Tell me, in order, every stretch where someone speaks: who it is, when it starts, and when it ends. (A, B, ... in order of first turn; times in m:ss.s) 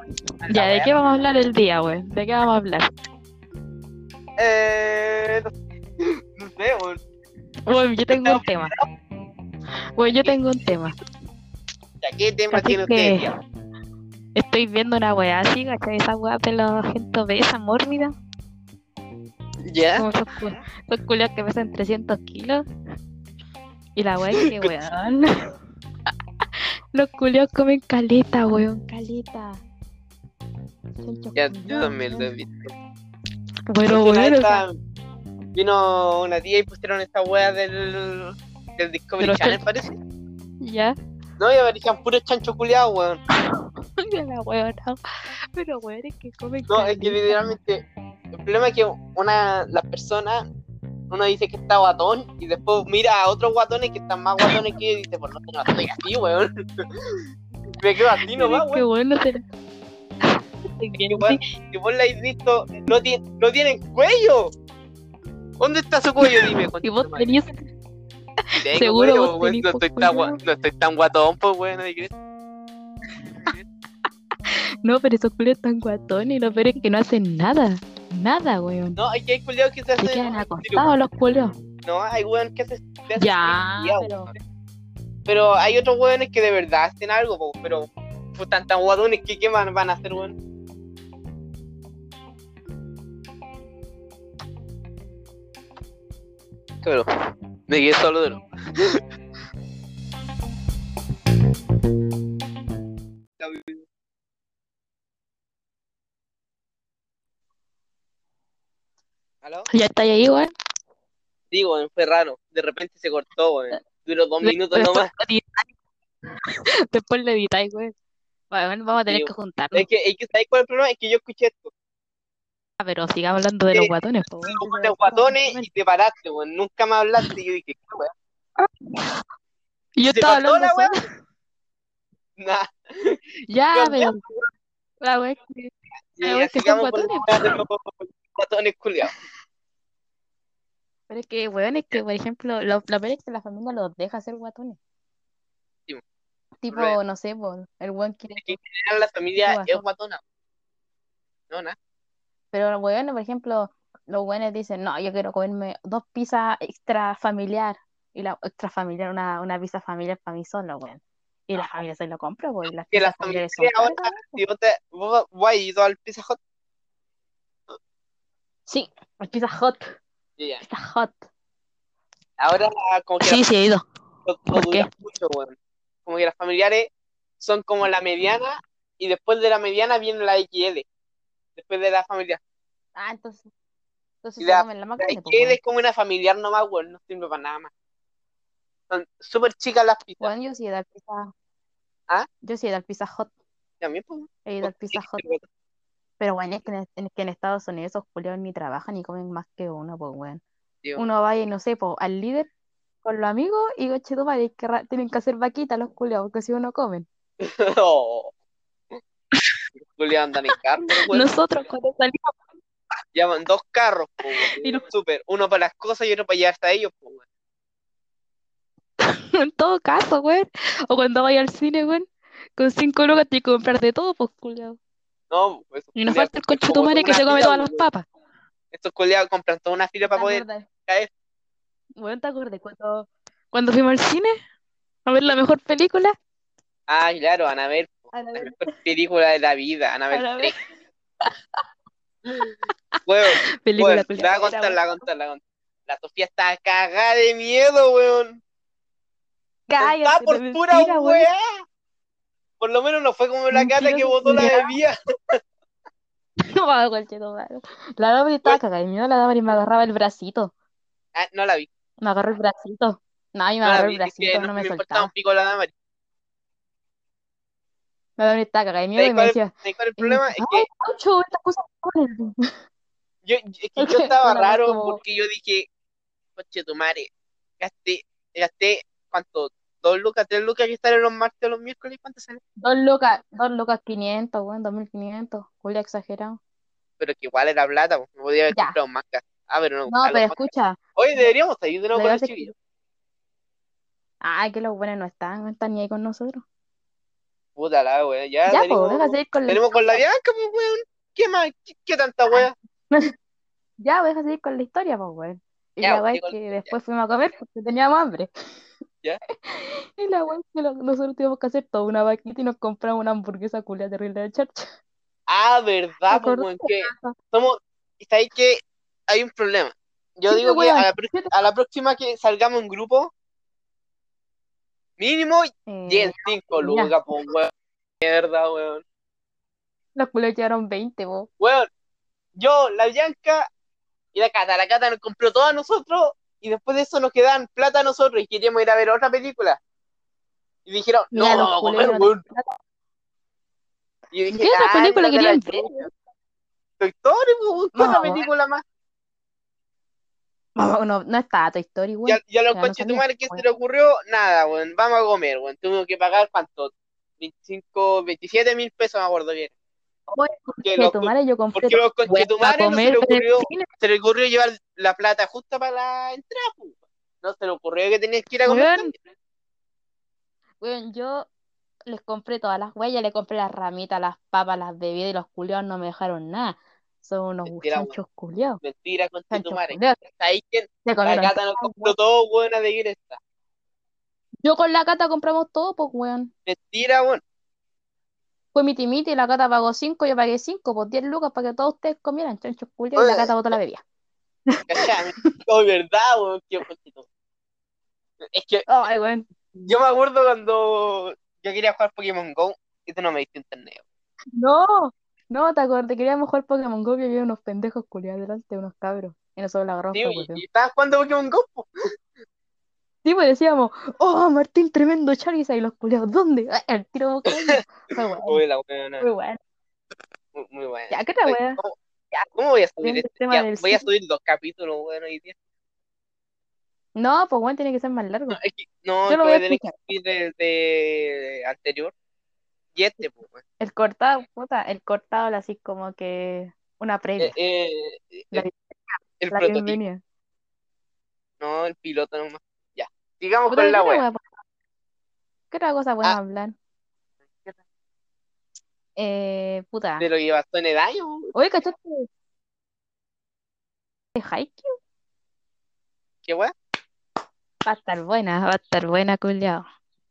0:00.4-0:00.9 A
0:00.5-0:02.9 B
0:04.4-0:07.0 A
0:07.7-0:08.8 B
0:08.1-0:08.8 A
0:10.0-0:11.0 B
0:12.0-0:13.3 A
0:12.5-0:13.3 B
0:14.4-0:18.1 B
0:19.7-0:20.1 A
0:20.0-0:22.6 B
0:24.0-0:25.5 B
0:24.4-0:24.7 A
0:26.9-0:29.6 B
0:31.0-0:32.3 B
0:31.4-0:32.7 A
0:33.7-0:34.6 B
0:33.9-0:34.8 A
0:35.5-0:40.0 A
0:39.2-0:39.7 B
0:40.6-0:41.0 B
0:41.4-0:43.2 A
0:43.4-0:45.0 B
0:45.5-0:47.6 B
0:46.7-0:50.5 A
0:51.1-0:57.3 A
0:57.8-0:58.8 A
0:58.2-0:59.4 B
1:00.7-1:01.4 B
1:01.1-1:04.5 A
1:05.6-1:07.3 A
1:06.2-1:07.5 B
1:08.6-1:10.4 B
1:08.6-1:12.1 A
1:14.5-1:19.0 B
1:19.0-1:20.9 A
1:20.0-1:21.5 B
1:21.8-1:24.3 A
1:23.2-1:24.3 B
1:25.3-1:30.4 A
1:36.8-1:37.1 A
1:37.7-1:39.0 A
1:43.4-1:43.8 A
1:49.4-1:49.7 A
1:49.7-1:50.5 B
1:51.5-1:55.1 A
1:54.4-1:55.7 B
1:56.5-1:57.9 B
1:58.5-1:59.9 B
1:59.1-2:01.7 A
2:02.8-2:05.7 B
2:03.7-2:08.1 A
2:08.6-2:09.2 B
2:10.0-2:11.0 B
2:10.1-2:11.0 A
2:12.4-2:13.2 A
2:13.5-2:14.2 B
2:13.7-2:14.5 A
2:15.0-2:17.6 B
2:16.2-2:19.1 A
2:21.1-2:24.8 B
2:26.6-2:28.6 B
2:28.4-2:30.2 A
2:29.4-2:29.8 B
2:31.5-2:31.8 A
2:32.5-2:44.4 B
2:42.9-2:46.4 A
2:48.7-2:50.0 B
2:50.6-2:51.2 B
2:52.4-2:53.4 A
2:53.2-2:53.8 B
2:54.3-3:00.9 A
2:54.5-2:54.9 B
3:01.6-3:02.4 A
3:03.0-3:03.5 B
3:04.2-3:05.6 B
3:04.4-3:07.7 A
3:08.9-3:10.3 A
3:10.2-3:11.3 B
3:12.4-3:13.3 B
3:13.8-3:15.4 A
3:14.5-3:15.3 B
3:16.2-3:20.4 B
3:21.0-3:22.5 B
3:23.0-3:27.1 B
3:27.4-3:28.3 A
3:29.9-3:31.3 A
3:31.1-3:32.4 B
3:33.1-3:37.2 A
3:34.5-3:34.8 B
3:39.0-3:42.1 B
3:42.6-3:44.8 B
3:45.3-3:47.8 A
3:46.0-3:48.0 B
3:48.7-3:51.1 A
3:50.1-3:50.7 B
3:52.0-3:54.4 B
3:55.1-3:56.1 B
3:56.9-4:00.5 A
3:58.1-3:58.7 B
4:00.1-4:00.6 B
4:02.4-4:04.8 B
4:03.1-4:08.4 A
4:09.7-4:11.3 B
4:09.8-4:11.6 A
4:12.6-4:15.4 A
4:13.5-4:14.7 B
4:16.4-4:20.5 B
4:21.1-4:21.7 A
4:22.0-4:25.1 B
4:23.6-4:25.7 A
4:28.2-4:32.5 B
4:29.0-4:30.7 A
4:33.2-4:35.7 A
4:33.8-4:35.0 B
4:36.4-4:42.4 A
4:42.6-4:46.4 B
4:47.0-4:52.5 A
4:48.5-4:48.8 B
4:49.9-4:51.3 B
4:51.9-4:52.5 B
4:54.2-4:56.4 B
4:57.6-5:02.5 A
4:58.5-4:59.7 B
5:02.3-5:03.1 B
5:03.8-5:08.3 B
5:05.8-5:06.7 A
5:09.5-5:14.7 B
5:15.3-5:23.1 A
5:16.1-5:17.2 B
5:20.3-5:21.3 B
5:25.0-5:28.8 A
5:25.7-5:26.9 B
5:30.0-5:31.3 B
5:31.4-5:31.7 A
5:32.4-5:33.5 A
5:34.1-5:39.6 A
5:40.7-5:42.2 A
5:41.1-5:42.6 B
5:44.1-5:45.9 A
5:44.3-5:45.9 B
5:46.8-5:48.6 A
5:47.8-5:48.2 B
5:50.6-5:53.4 B
5:52.1-5:59.5 A
6:00.1-6:03.7 B
6:00.6-6:08.9 A
6:08.4-6:08.9 B
6:10.6-6:11.3 B
6:11.9-6:18.6 B
6:17.4-6:18.0 A
6:18.6-6:23.2 A
6:19.3-6:20.0 B
6:20.8-6:22.0 B
6:24.4-6:26.3 B
6:26.5-6:27.2 A
6:28.5-6:33.8 B
6:33.0-6:33.5 A
6:34.5-6:35.4 B
6:34.7-6:37.1 A
6:38.3-6:38.7 A
6:38.7-6:39.3 B
6:39.5-6:43.8 A
6:44.4-6:50.4 B
6:49.9-6:51.7 A
6:53.0-6:58.4 B
6:58.3-6:59.1 A
6:59.0-6:59.4 B
7:00.3-7:01.8 A
7:00.9-7:01.6 B
7:02.3-7:05.4 A
7:02.8-7:03.8 B
7:07.0-7:08.4 B
7:08.3-7:11.9 A
7:09.1-7:09.8 B
7:12.7-7:13.4 A
7:13.6-7:17.4 B
7:17.2-7:18.4 A
7:18.3-7:20.0 B
7:19.2-7:19.8 A
7:21.4-7:24.0 A
7:23.5-7:24.2 B
7:25.5-7:26.6 B
7:27.3-7:27.6 A
7:29.0-7:30.1 B
7:30.0-7:31.3 A
7:31.3-7:32.1 B
7:34.2-7:34.7 B
7:36.2-7:36.5 A
7:37.6-7:39.6 B